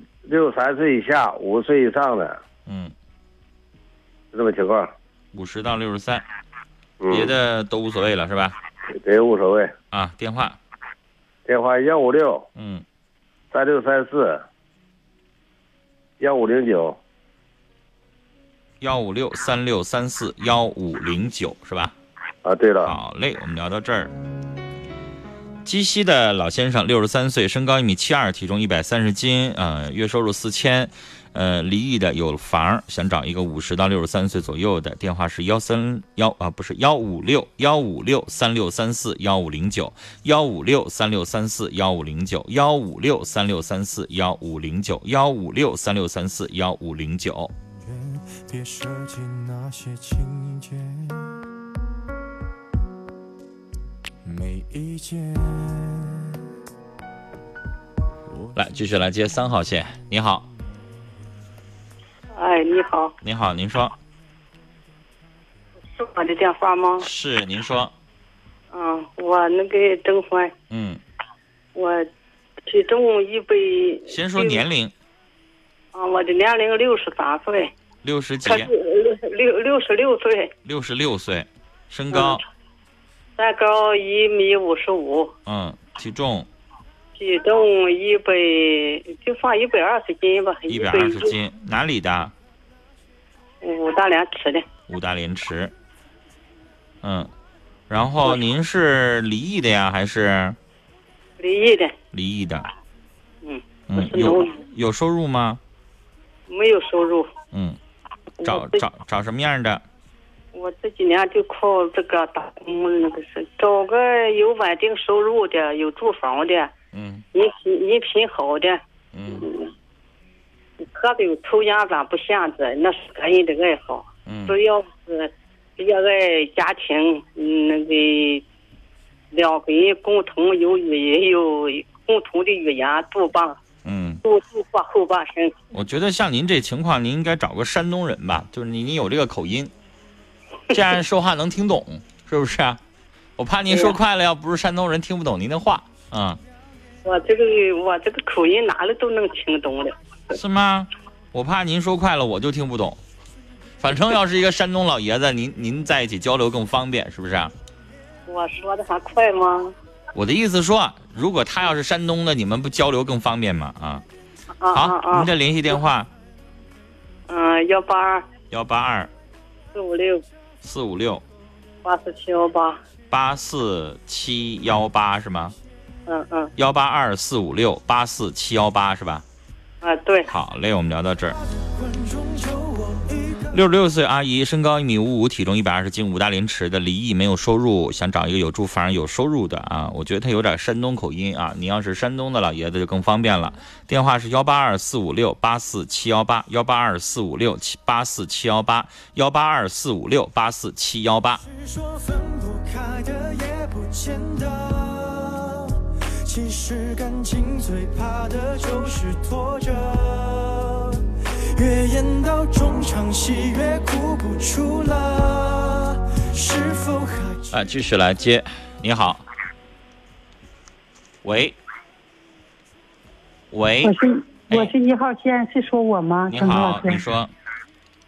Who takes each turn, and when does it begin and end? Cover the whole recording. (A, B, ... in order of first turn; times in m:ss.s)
0:00.2-0:02.4 A
0:02.6-0:02.9 B
0:04.3-0:04.9 A
0:05.3-0:06.2 B
0:07.0-0:07.3 A
0:07.1-0:08.6 B
0:09.0-0:09.7 A
0:09.9-0:10.6 B
0:11.5-0:12.4 A
0:12.6-0:12.8 B
0:13.5-0:14.4 A
0:16.2-0:17.0 A
0:18.8-0:21.9 B
0:22.4-0:22.9 A
0:22.8-0:24.1 B
0:25.6-0:47.5 B
0:47.8-0:51.3 C
0:54.2-0:56.4 C
0:58.5-1:00.4 B
1:02.3-1:03.1 D
1:03.2-1:03.9 B
1:06.0-1:07.0 D
1:07.0-1:07.9 B
1:08.7-1:10.5 D
1:10.7-1:11.0 B
1:11.7-1:12.1 D
1:12.7-1:14.6 D
1:14.1-1:14.9 B
1:15.9-1:17.7 D
1:18.0-1:18.7 B
1:18.4-1:20.5 D
1:20.6-1:22.4 B
1:22.1-1:22.4 D
1:23.4-1:25.3 D
1:25.4-1:26.5 B
1:27.2-1:31.3 D
1:30.7-1:32.3 B
1:33.6-1:34.6 D
1:34.9-1:35.7 B
1:37.0-1:37.3 B
1:37.9-1:40.6 B
1:41.4-1:41.9 D
1:42.1-1:42.7 B
1:43.4-1:44.5 D
1:43.9-1:45.6 B
1:46.5-1:47.3 D
1:47.5-1:47.8 B
1:48.4-1:48.8 D
1:48.4-1:49.8 B
1:50.5-1:56.7 D
1:56.9-1:57.2 B
1:57.3-1:58.8 D
1:59.1-1:59.4 B
2:00.8-2:08.4 D
2:04.3-2:04.6 B
2:09.3-2:13.6 D
2:13.8-2:14.2 B
2:14.2-2:15.5 D
2:15.7-2:19.7 B
2:20.7-2:22.8 B
2:23.4-2:26.4 B
2:27.0-2:29.9 D
2:30.3-2:33.0 B
2:33.8-2:37.5 B
2:38.3-2:39.7 D
2:40.1-2:44.0 B
2:44.6-2:45.3 D
2:44.7-2:46.1 B
2:47.3-2:48.2 D
2:48.5-2:49.1 B
2:49.7-2:50.2 D
2:50.6-2:51.2 B
2:51.8-2:52.8 D
2:53.1-2:55.5 B
2:56.1-2:56.5 D
2:56.6-2:59.2 B
2:59.8-3:00.3 D
3:00.3-3:01.3 B
3:01.4-3:03.6 C
3:03.5-3:21.4 B
3:21.4-3:31.0 C
3:31.6-3:37.5 C
3:37.5-3:39.2 B
3:41.2-3:41.6 B
3:43.5-3:43.9 B
3:43.8-3:47.0 E
3:46.3-3:47.3 B